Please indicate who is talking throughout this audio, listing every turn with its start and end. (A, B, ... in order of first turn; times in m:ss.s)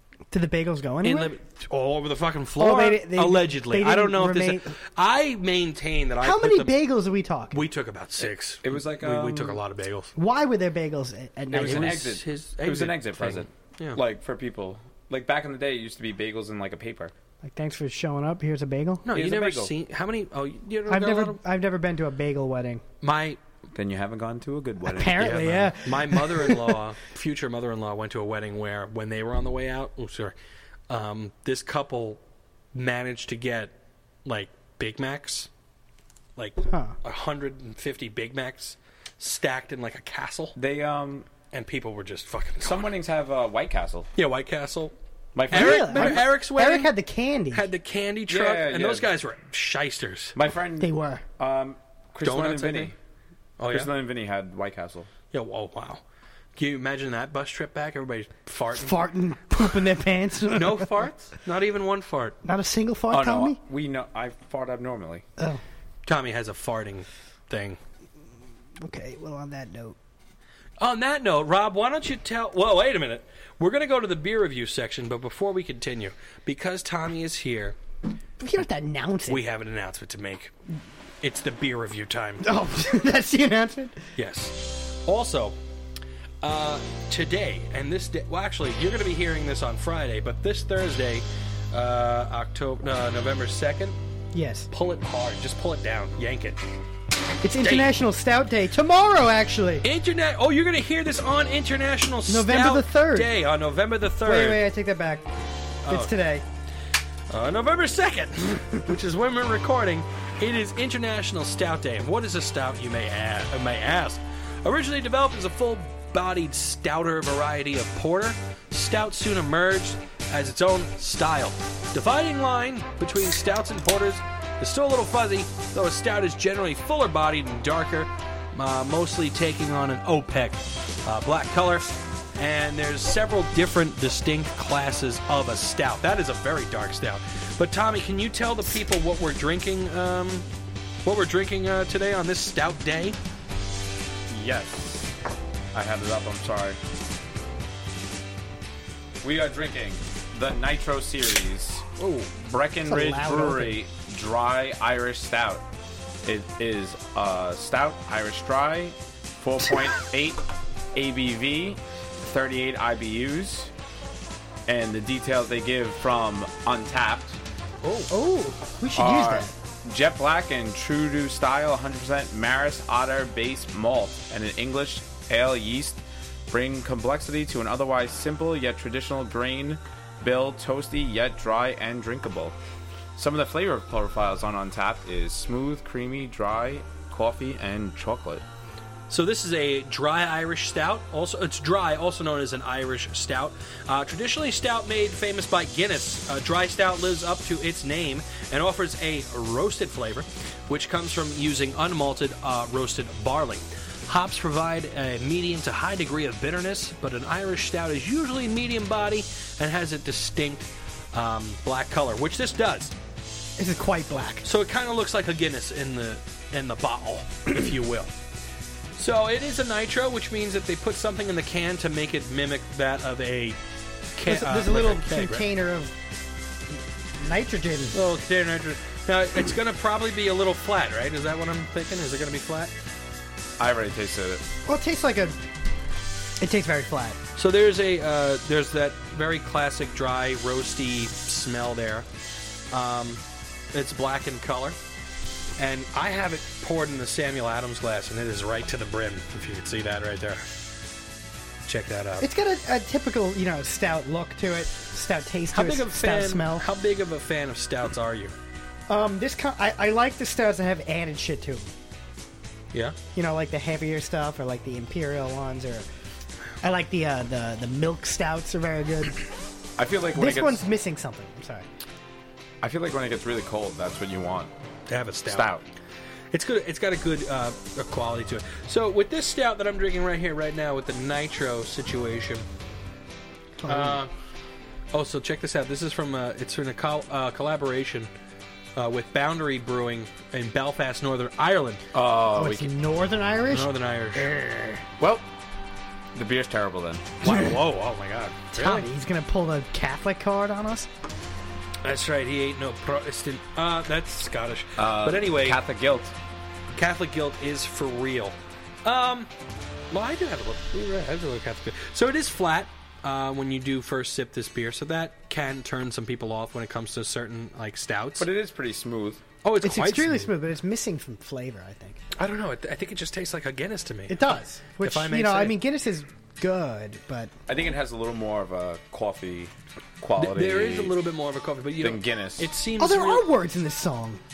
0:00.3-0:01.3 A
0:01.0-0:06.7 B
0:02.6-0:04.7 A
0:06.2-0:07.6 A
0:07.5-0:10.1 B
0:08.2-0:09.6 C
0:10.2-0:12.1 A
0:11.5-0:17.1 C
0:11.5-0:14.0 B
0:17.4-0:19.0 A
0:19.0-0:21.4 B
0:19.1-0:19.7 C
0:20.9-0:22.8 A
0:23.0-0:23.4 B
0:23.7-0:25.7 C
0:24.8-0:26.8 A
0:25.2-0:30.3 B
0:30.9-0:32.2 B
0:32.7-0:33.7 B
0:34.2-0:35.5 B
0:36.4-0:40.5 B
0:36.7-0:37.0 A
0:40.6-0:41.3 C
0:41.5-0:42.9 B
0:42.6-0:44.1 C
0:44.1-0:44.9 B
0:45.3-0:46.2 C
0:45.5-0:46.9 B
0:45.5-0:47.7 A
0:47.5-0:50.4 B
0:48.3-0:49.1 C
0:50.3-0:52.9 C
0:50.8-0:51.2 A
0:52.2-0:52.9 B
0:53.6-0:53.9 B
0:53.7-0:55.1 C
0:55.3-0:56.0 B
0:56.6-0:59.0 B
0:58.7-1:01.0 A
1:00.5-1:02.4 B
1:02.4-1:03.6 A
1:03.1-1:05.2 C
1:06.0-1:07.8 B
1:08.8-1:10.0 A
1:10.8-1:17.8 B
1:18.4-1:19.4 A
1:19.3-1:20.5 B
1:21.2-1:22.5 B
1:22.4-1:24.0 A
1:24.2-1:25.6 B
1:26.4-1:34.0 B
1:34.3-1:34.7 A
1:34.7-1:36.6 B
1:37.4-1:39.8 A
1:37.6-1:37.9 B
1:39.8-1:44.6 B
1:42.3-1:43.3 A
1:44.2-1:45.3 A
1:45.8-1:46.1 B
1:45.9-1:46.4 A
1:47.3-2:20.5 B
2:21.0-2:23.2 B
2:24.3-2:25.1 C
2:25.7-2:26.8 C
2:29.2-2:35.7 C
2:32.0-2:32.3 B
2:32.9-2:33.8 A
2:36.2-2:43.7 C
2:44.7-2:47.4 C
2:48.1-2:49.5 A
2:48.9-3:02.6 C
3:03.2-3:08.4 C
3:09.1-3:32.9 B
3:33.6-3:34.4 A
3:34.4-3:38.1 B
3:39.0-3:43.6 B
3:44.1-3:45.4 B
3:44.2-3:45.9 A
3:47.2-3:48.0 A
3:47.9-3:52.7 B
3:53.6-3:54.4 C
3:54.6-3:55.4 A
3:56.4-3:57.2 A
3:57.4-4:02.1 B
4:02.7-4:04.8 B
4:05.6-4:10.5 B
4:11.6-4:12.3 B
4:12.2-4:16.7 A
4:15.5-4:18.3 B
4:18.9-4:21.7 A
4:23.1-4:25.8 A
4:26.6-4:29.3 A
4:29.8-4:30.6 C
4:30.1-4:31.6 A
4:32.6-4:34.5 C
4:34.9-4:35.5 B
4:35.3-4:35.6 C
4:36.3-4:42.4 B
4:43.6-4:44.0 A
4:43.6-4:44.1 B
4:44.9-4:48.1 B
4:48.8-4:51.8 B
4:51.9-4:52.7 C
4:52.3-4:54.8 A
4:53.5-4:54.3 B
4:55.0-4:55.3 C
4:56.1-4:57.1 C
4:57.2-4:58.8 B
4:57.2-4:57.5 A
4:58.6-5:00.9 A
5:01.8-5:05.6 B
5:04.8-5:06.1 C
5:06.7-5:09.3 B
5:09.9-5:18.3 B
5:18.2-5:19.2 C
5:19.4-5:20.3 B
5:19.6-5:22.0 A
5:22.2-5:25.6 B
5:24.1-5:27.3 A
5:27.5-5:31.0 C
5:30.2-5:33.3 B
5:31.8-5:32.5 C
5:32.8-5:34.2 A